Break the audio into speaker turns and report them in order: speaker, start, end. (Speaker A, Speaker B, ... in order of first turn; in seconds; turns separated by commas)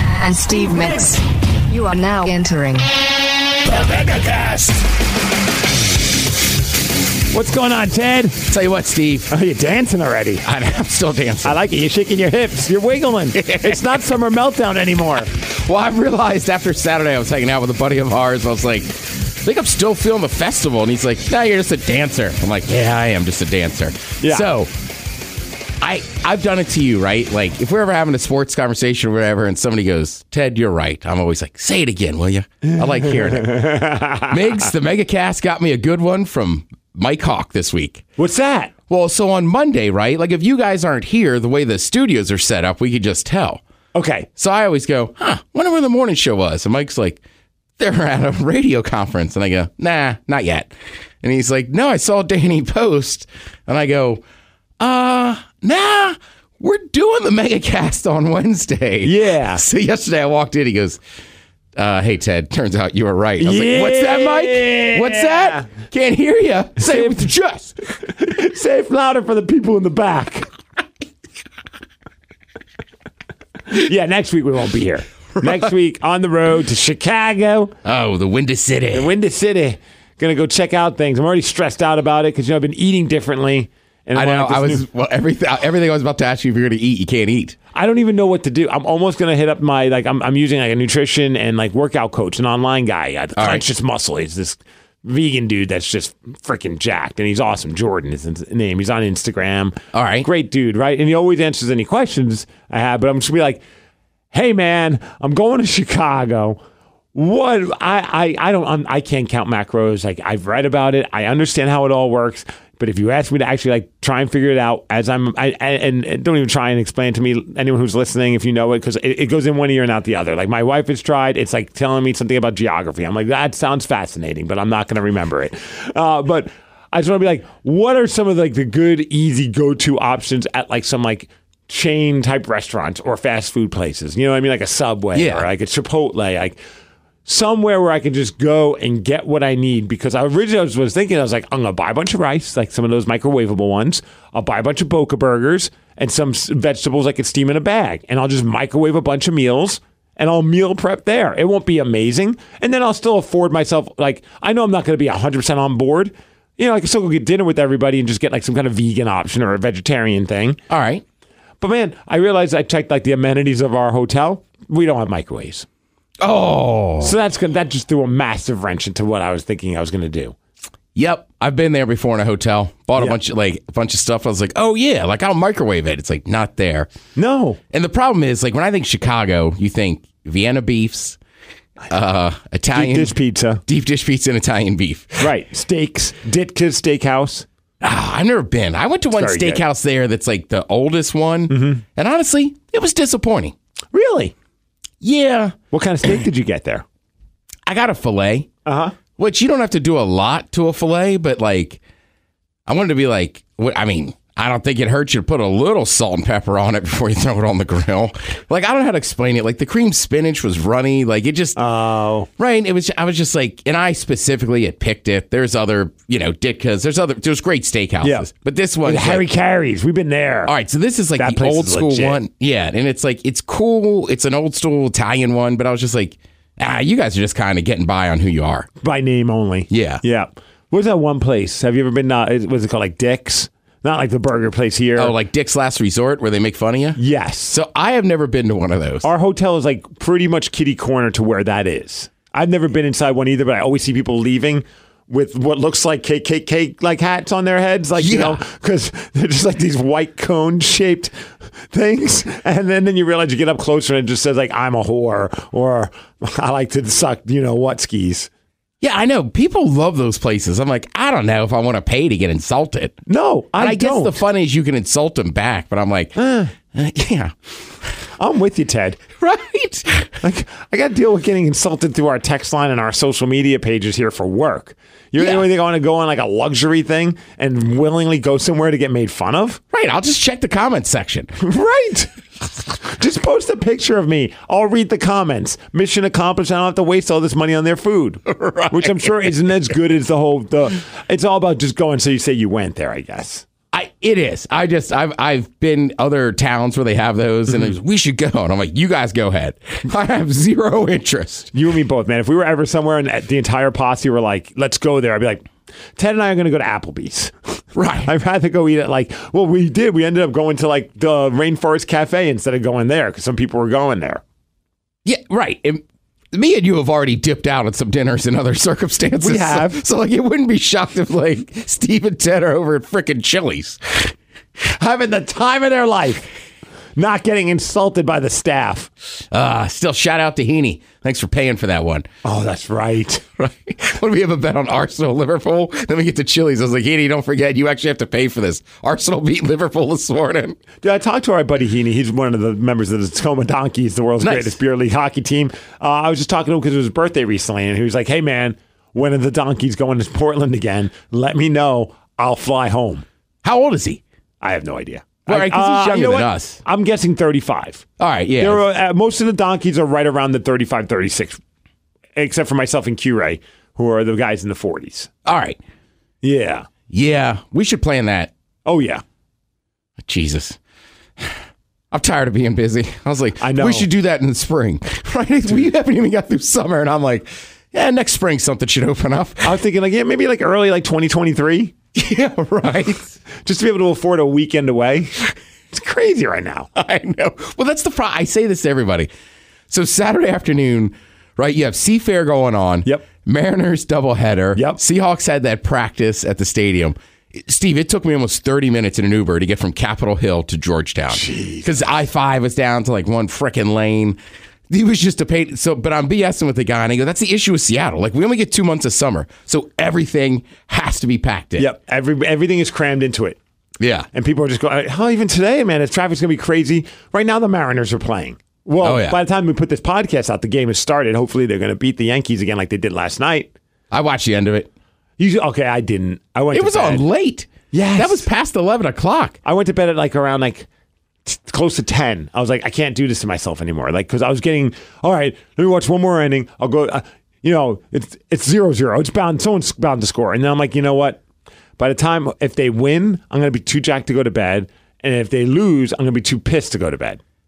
Speaker A: 0.2-2.9, Speaker B: 4.3-4.6, Speaker B: 7.3-8.4, Speaker C: 8.5-9.3, Speaker B: 9.3-10.4, Speaker C: 10.4-11.6, Speaker B: 11.4-15.3, Speaker C: 13.3-14.0, Speaker C: 15.4-24.7, Speaker B: 24.2-24.5, Speaker C: 25.8-33.7, Speaker B: 32.6-34.4, Speaker C: 34.3-38.0, Speaker B: 38.2-38.7, Speaker C: 38.9-43.6, Speaker B: 43.9-44.3, Speaker C: 44.4-47.2, Speaker C: 47.8-54.2, Speaker C: 54.8-61.0, Speaker B: 59.0-59.6, Speaker C: 61.8-67.8, Speaker B: 63.4-65.7, Speaker B: 66.8-67.3, Speaker B: 68.1-70.5, Speaker B: 73.7-77.8, Speaker C: 75.4-75.7, Speaker C: 77.8-79.1, Speaker B: 78.9-84.8, Speaker C: 84.1-87.6, Speaker B: 87.7-103.6, Speaker C: 93.4-93.6, Speaker C: 99.9-100.3, Speaker B: 104.3-106.6, Speaker B: 107.1-136.6, Speaker C: 135.1-135.5, Speaker B: 137.2-160.6, Speaker C: 160.7-161.0, Speaker B: 161.6-165.7, Speaker C: 166.2-167.1, Speaker B: 167.0-170.3, Speaker C: 170.9-176.9, Speaker B: 177.2-177.6, Speaker C: 177.7-181.2, Speaker C: 181.9-185.3, Speaker B: 182.7-183.6, Speaker B: 185.2-187.4, Speaker C: 187.8-193.5, Speaker B: 189.1-189.6, Speaker B: 191.5-191.8, Speaker B: 193.9-194.3, Speaker C: 195.0-195.6, Speaker B: 195.7-196.8, Speaker C: 197.7-198.5, Speaker B: 198.7-198.9, Speaker C: 199.2-201.8, Speaker C: 202.7-211.6, Speaker B: 211.6-212.3, Speaker C: 212.4-219.2, Speaker B: 218.0-218.3, Speaker B: 218.8-220.5, Speaker C: 220.4-228.7, Speaker B: 221.2-222.2, Speaker B: 228.8-235.1, Speaker C: 229.7-230.0, Speaker C: 235.0-239.1, Speaker B: 236.9-237.5, Speaker B: 239.0-251.1, Speaker C: 248.0-248.4, Speaker B: 251.7-258.3, Speaker C: 258.8-263.0, Speaker B: 263.1-264.2, Speaker C: 263.6-266.1, Speaker B: 266.1-266.5, Speaker C: 266.7-268.1, Speaker B: 268.2-269.0, Speaker C: 269.2-270.2, Speaker B: 270.2-279.6, Speaker C: 275.2-275.5, Speaker C: 279.7-281.3, Speaker B: 281.4-282.1, Speaker B: 282.9-293.4, Speaker C: 288.2-289.7, Speaker C: 293.7-301.5, Speaker B: 301.5-307.5, Speaker C: 307.7-308.1, Speaker B: 308.0-314.2, Speaker C: 315.0-324.1, Speaker B: 319.2-319.8, Speaker B: 324.8-326.3, Speaker B: 326.9-328.9, Speaker C: 329.3-332.1, Speaker B: 332.2-333.2, Speaker C: 333.4-340.6, Speaker B: 340.8-353.0, Speaker C: 344.2-344.6, Speaker C: 353.4-354.0, Speaker B: 354.4-357.9, Speaker C: 355.3-356.6, Speaker C: 358.0-358.6, Speaker B: 358.4-361.4, Speaker B: 362.1-365.1, Speaker C: 365.2-365.6, Speaker B: 366.2-366.7, Speaker C: 366.9-368.3, Speaker B: 368.6-369.0, Speaker C: 370.0-370.6, Speaker C: 371.9-379.6, Speaker B: 373.4-373.9, Speaker B: 379.4-381.7, Speaker C: 381.9-383.1, Speaker B: 383.4-386.7, Speaker C: 386.8-389.1, Speaker C: 389.7-404.2, Speaker B: 401.1-401.7, Speaker C: 404.7-411.7, Speaker B: 411.6-413.4, Speaker C: 413.8-414.1, Speaker B: 414.1-423.5, Speaker C: 418.8-419.2, Speaker C: 423.9-424.7, Speaker B: 425.2-427.0, Speaker C: 426.5-429.4, Speaker B: 427.7-428.3, Speaker B: 429.4-430.7, Speaker B: 431.2-441.2, Speaker B: 441.8-447.2